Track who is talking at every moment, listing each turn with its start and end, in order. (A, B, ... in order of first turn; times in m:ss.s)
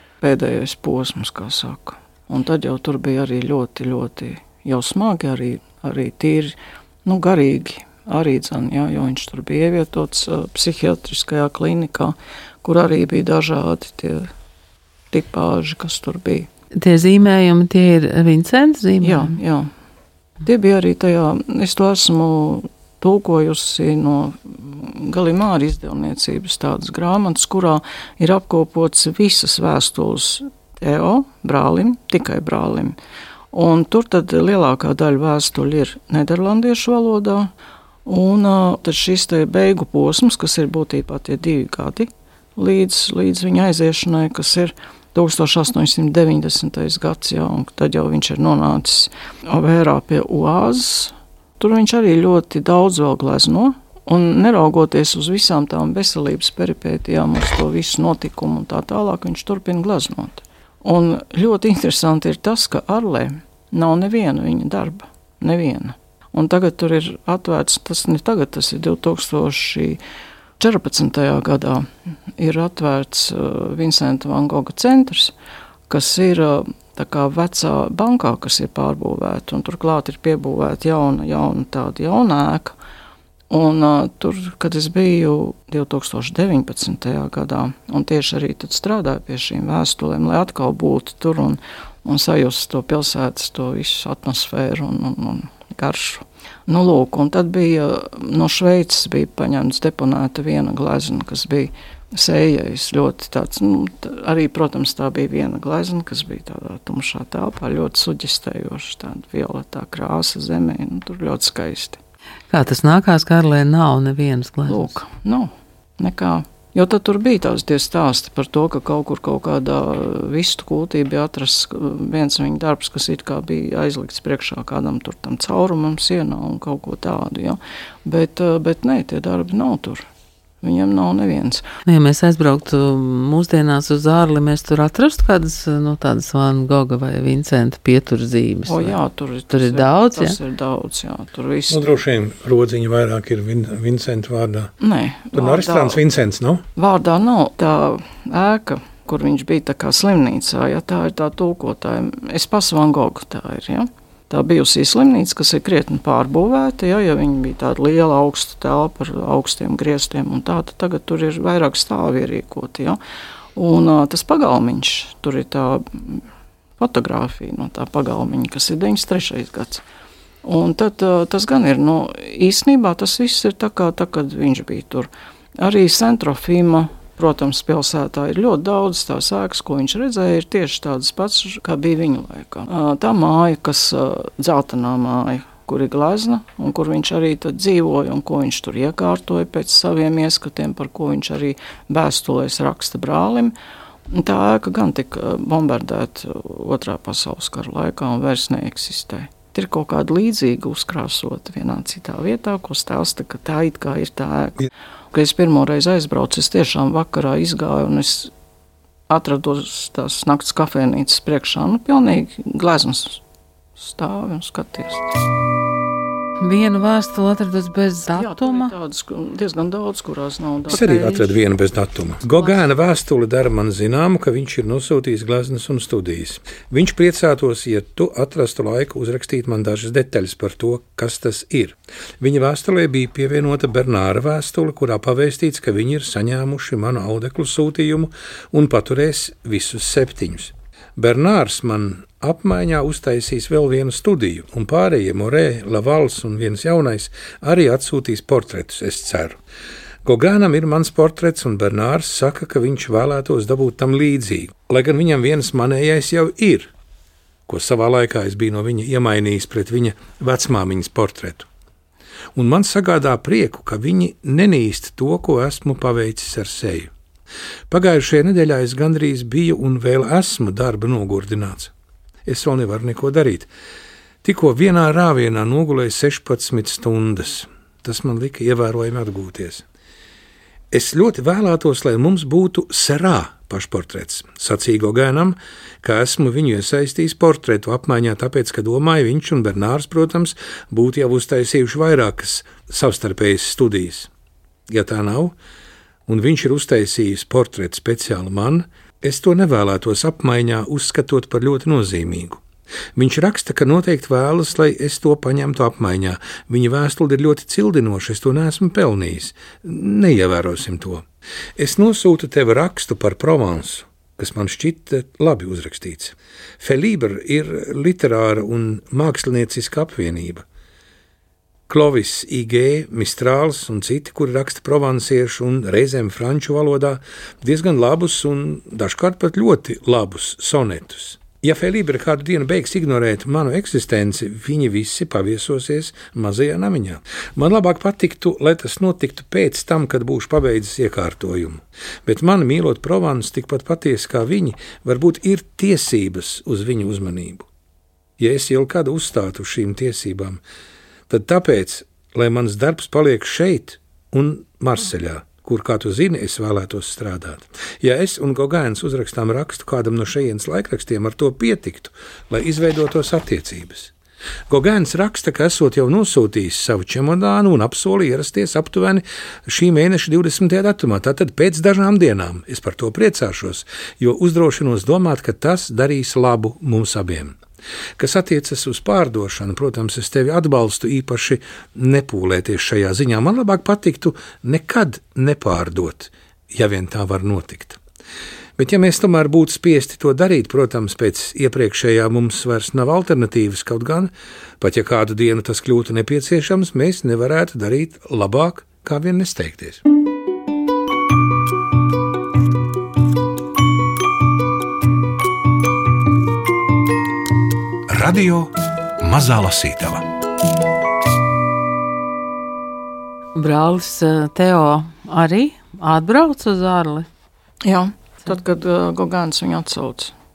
0:00.2-0:14.3 A
0:15.1-0:16.5 A
0:16.8-0:19.4 B
0:19.0-0:19.7 A
0:20.4-0:33.0 A
0:33.5-0:37.5 A
0:38.1-1:10.0 A
1:10.6-1:15.3 A
1:15.9-1:22.8 A
1:23.5-1:52.0 A
1:52.5-1:54.9 B
1:54.7-2:10.1 A
2:10.6-2:11.6 A
2:11.9-2:19.0 B
2:18.7-2:22.0 A
2:19.5-2:20.4 B
2:21.7-2:24.7 C
2:24.8-2:26.0 A
2:25.3-2:26.6 C
2:26.8-2:43.0 A
2:43.6-2:46.2 A
2:46.8-2:49.8 A
2:50.4-3:13.6 A
3:14.1-3:28.3 A
3:29.1-3:33.2 A
3:33.8-3:35.1 A
3:36.4-3:38.7 B
3:38.2-3:41.2 A
3:40.7-3:41.3 B
3:40.7-4:09.4 C
4:10.0-4:16.7 C
4:17.5-4:21.5 C
4:22.4-4:26.9 C
4:27.7-4:31.7 C
4:32.3-4:33.5 C
4:34.2-4:39.6 C
4:40.7-4:54.1 C
4:54.7-4:55.4 C
4:56.1-5:02.4 C
5:03.0-5:11.0 C
5:11.6-5:20.4 C
5:21.7-5:47.5 C
5:48.2-5:50.4 C
5:51.1-6:03.9 C
6:04.5-6:17.4 C
6:18.0-6:27.8 C
6:28.6-6:39.8 C
6:47.9-6:50.1 C
6:53.4-6:57.1 B
6:57.6-7:00.1 A